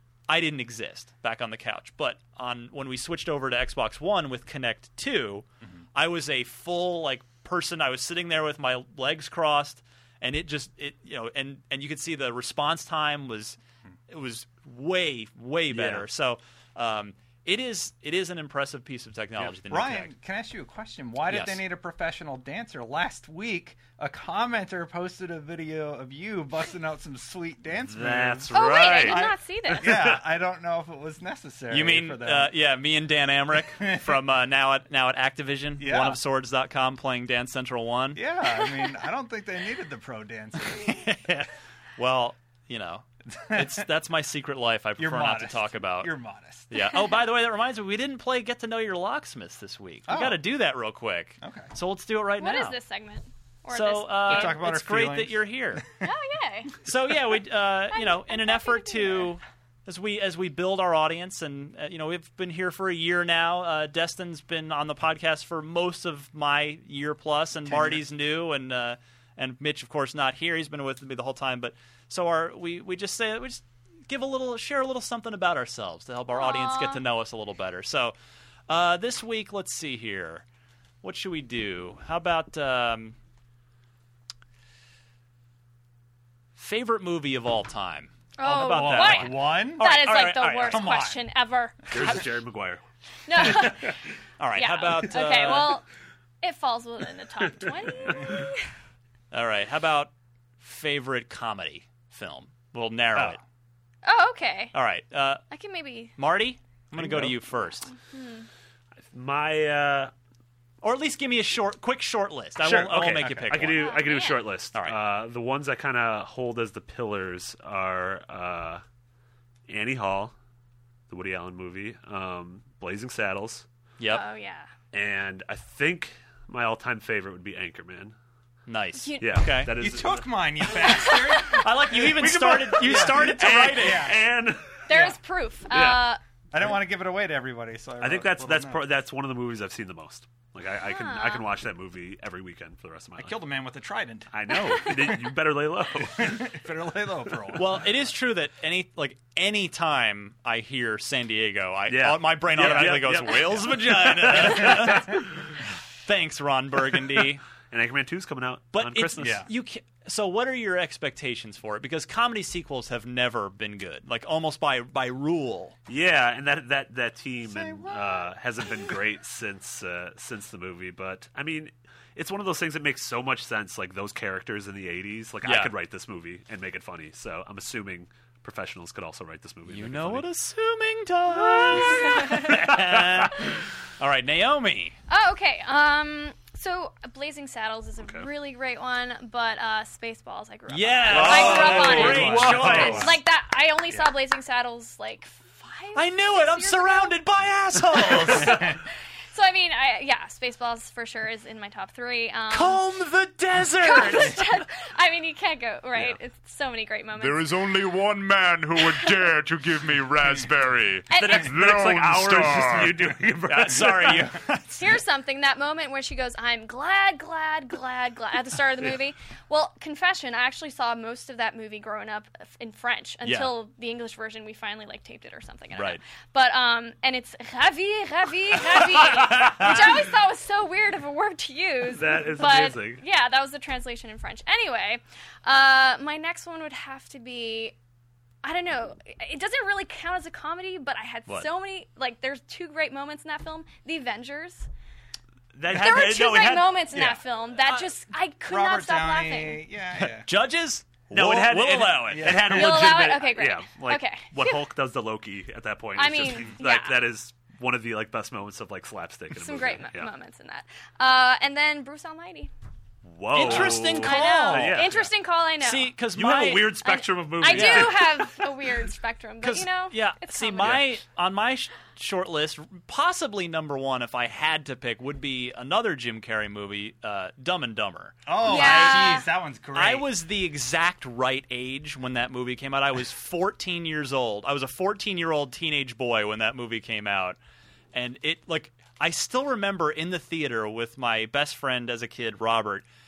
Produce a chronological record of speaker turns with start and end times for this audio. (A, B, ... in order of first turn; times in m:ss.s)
0:00.3-0:13.6 A
0:14.1-0:20.1 A
0:15.7-0:16.0 B
0:19.7-0:32.6 C
0:21.3-0:21.6 A
0:27.9-0:30.2 B
0:28.5-0:29.9 D
0:31.7-0:38.2 A
0:33.8-0:34.1 C
0:35.8-0:36.2 C
0:38.1-0:41.2 C
0:40.9-0:46.1 A
0:43.4-0:43.8 C
0:45.0-0:46.7 C
0:46.7-0:52.8 A
0:50.1-0:50.4 C
0:51.4-0:51.7 C
0:52.4-0:54.6 D
0:53.7-0:55.9 A
0:54.3-0:55.8 C
0:56.0-0:56.8 D
0:56.8-1:18.2 A
0:57.9-0:59.3 D
1:07.6-1:08.0 C
1:16.3-1:17.0 D
1:18.7-1:20.4 A
1:21.0-1:23.2 A
1:26.6-1:30.9 A
1:28.4-1:32.2 D
1:28.6-1:30.0 C
1:30.6-1:31.2 C
1:31.9-1:32.8 B
1:33.3-1:34.0 D
1:33.4-1:34.0 B
1:34.4-1:35.8 A
1:34.6-1:35.9 D
1:36.4-1:38.7 D
1:39.3-1:43.4 A
1:43.2-1:43.4 C
1:44.0-1:44.8 D
1:44.7-1:45.4 A
1:45.5-1:46.2 D
1:46.2-1:47.9 A
1:47.5-1:48.5 D
1:49.0-1:50.1 B
1:50.8-1:53.9 A
1:52.6-1:58.8 B
1:53.2-1:53.6 C
1:53.8-1:54.5 D
1:54.7-1:55.0 A
1:59.7-2:00.4 B
2:01.1-2:03.7 B
2:04.0-2:04.2 A
2:04.1-2:04.7 D
2:04.9-2:08.2 B
2:08.7-2:09.7 A
2:09.0-2:09.4 D
2:09.2-2:10.3 B
2:09.8-2:14.2 C
2:10.8-2:11.4 D
2:11.4-2:14.2 A
2:12.0-2:15.1 B
2:14.9-2:16.2 D
2:15.7-2:16.1 B
2:16.5-2:18.8 C
2:18.0-2:23.4 B
2:20.8-2:21.5 D
2:23.2-2:25.4 C
2:24.3-2:26.4 B
2:26.0-2:27.8 C
2:27.6-2:35.2 A
2:31.9-2:35.2 B
2:36.0-2:37.4 A
2:37.7-2:39.4 B
2:38.7-2:45.8 A
2:39.2-2:39.5 C
2:45.9-3:00.3 B
2:47.4-2:48.3 C
2:55.4-2:55.7 A
2:59.7-3:05.0 A
3:01.4-3:03.4 B
3:01.9-3:02.5 D
3:05.1-3:17.2 D
3:08.0-3:08.3 B
3:10.7-3:13.1 A
3:11.1-3:13.1 B
3:11.1-3:13.2 C
3:16.0-3:18.7 A
3:18.1-3:22.8 D
3:22.5-3:24.6 A
3:23.8-3:27.7 D
3:27.2-3:33.2 E
3:28.9-3:29.2 D
3:31.1-3:31.5 D
3:31.1-3:34.3 B
3:33.5-3:34.8 A
3:34.7-3:57.8 D
3:43.2-3:43.5 A
3:45.8-3:46.0 A
3:49.4-3:49.7 B
3:51.9-3:53.0 B
3:58.4-4:04.7 D
4:05.6-4:07.2 B
4:05.7-4:09.7 D
4:08.4-4:10.3 C
4:10.0-4:12.5 A
4:11.1-4:20.1 B
4:12.0-4:13.0 C
4:12.4-4:14.6 D
4:16.0-4:17.0 D
4:19.3-4:22.5 D
4:23.0-4:25.1 B
4:23.3-4:24.9 A
4:23.5-4:25.9 D
4:25.6-4:26.9 A
4:26.1-4:28.4 B
4:26.8-4:30.8 D
4:27.4-4:28.1 A
4:29.4-4:39.2 A
4:30.6-4:30.9 B
4:38.3-4:40.1 C
4:38.4-4:39.3 D
4:39.7-4:47.4 A
4:47.9-4:52.8 A